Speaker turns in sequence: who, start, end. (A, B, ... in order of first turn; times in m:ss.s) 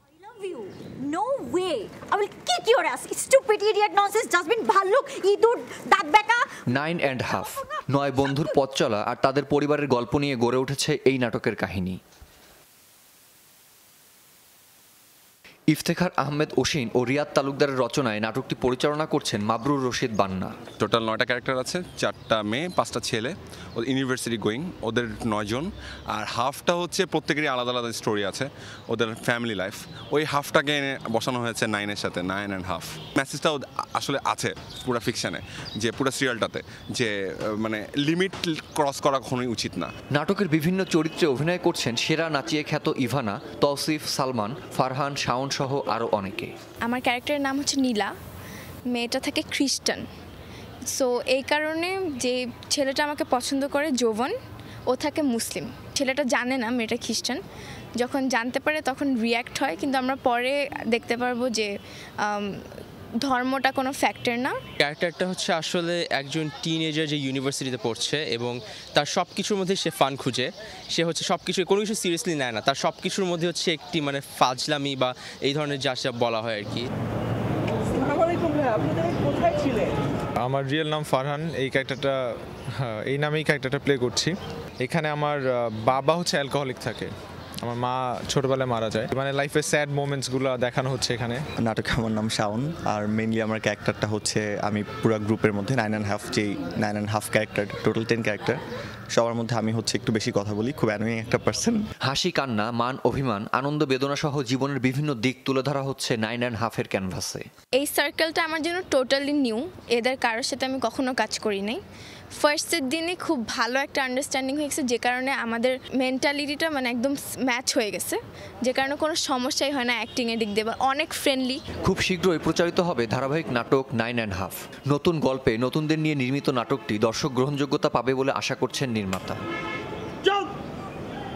0:00.2-0:06.6 A
0:06.7-0:12.0 B
0:07.3-0:08.2 A
0:15.7-0:20.6 B
0:20.8-0:39.9 C
0:40.1-0:46.6 B
0:46.9-0:48.1 D
0:48.9-0:50.0 D
0:50.9-0:54.3 D
0:54.9-0:57.4 D
0:58.0-1:01.7 D
1:02.2-1:02.6 D
1:03.2-1:04.6 D
1:04.8-1:16.9 E
1:20.4-1:22.2 F
1:22.8-1:27.1 F
1:27.6-1:31.4 F
1:31.6-1:38.6 G
1:39.1-1:41.8 G
1:42.0-1:47.5 B
1:47.8-1:51.8 D
1:52.4-2:01.6 D
2:01.8-2:09.4 B